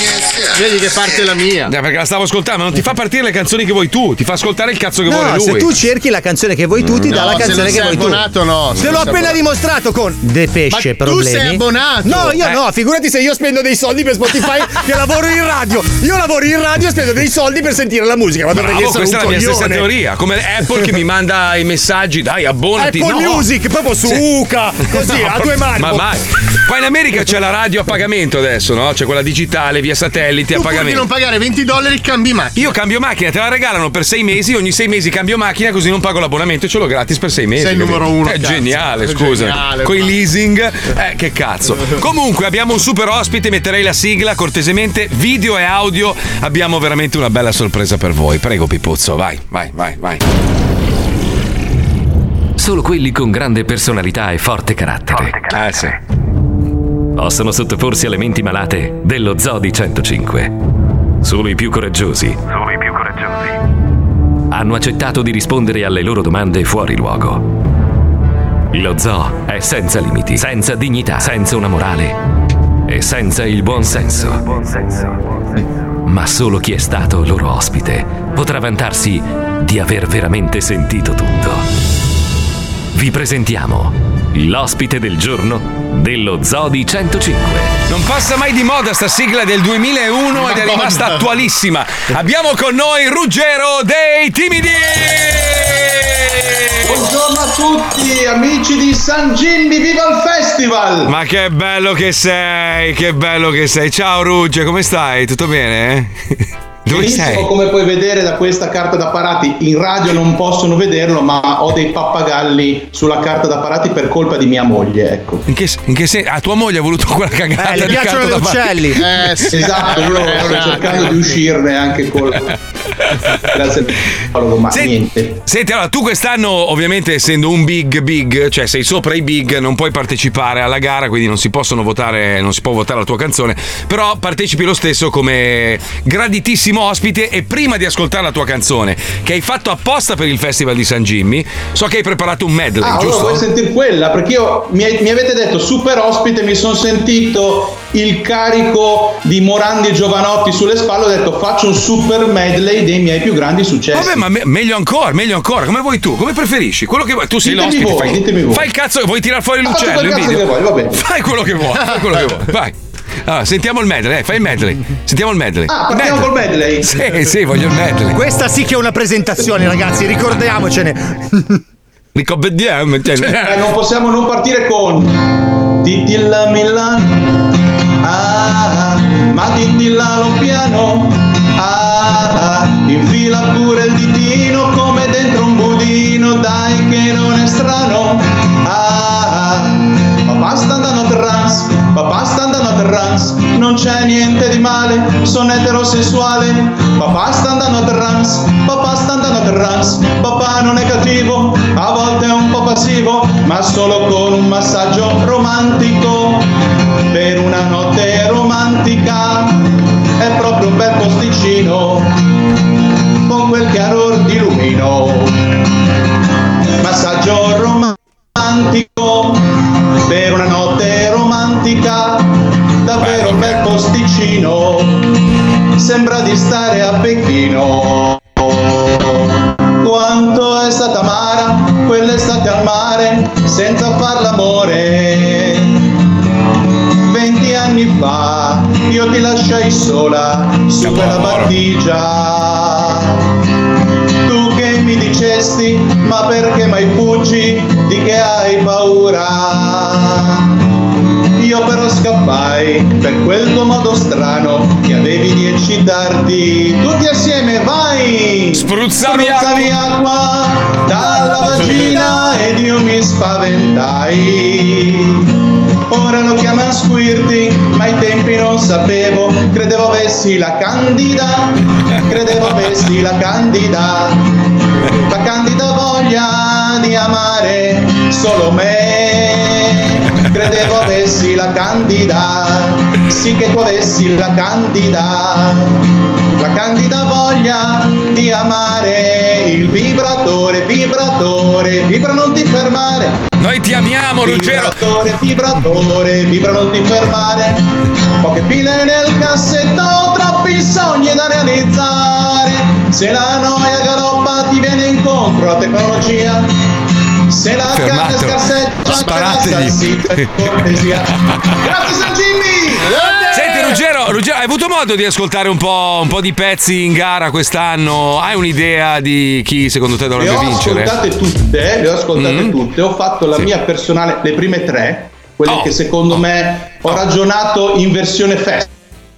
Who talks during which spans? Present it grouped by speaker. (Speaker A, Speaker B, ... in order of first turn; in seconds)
Speaker A: 0.4-1.7, 7.1-9.4, 10.7-12.4, 30.5-32.7, 37.6-40.1, 90.3-91.3, 119.0-121.3, 312.8-313.8
Speaker B: 1.7-5.7, 6.8-7.7, 18.5-23.5, 24.9-31.1, 32.5-50.2, 55.5-55.9, 87.9-97.0, 101.1-107.5, 115.5-119.0, 124.7-143.4, 153.9-166.3, 166.8-168.2, 172.2-173.6, 223.0-223.8, 240.8-241.5, 258.5-259.8, 293.4-294.8, 307.7-310.8, 313.3-321.0, 322.2-322.5, 325.5-326.2
Speaker C: 5.1-19.9, 22.8-26.1, 117.6-119.1, 168.1-171.6
Speaker D: 52.6-56.0, 57.1-60.5, 61.2-63.3, 64.5-67.5, 68.7-72.2, 72.9-75.2, 76.1-81.7, 82.9-87.7
Speaker E: 96.8-101.2, 106.9-115.4, 119.5-122.5, 123.3-125.4, 142.8-154.2, 157.4-158.7, 159.6-161.0, 165.7-167.0, 173.2-177.3, 178.0-206.5, 207.1-212.2, 213.3-215.7, 216.8-225.2, 225.8-235.9, 237.0-243.2, 244.2-250.5, 251.4-265.3, 265.9-274.3, 274.9-293.2, 294.2-297.7, 298.2-306.6, 307.3-312.9, 320.1-328.7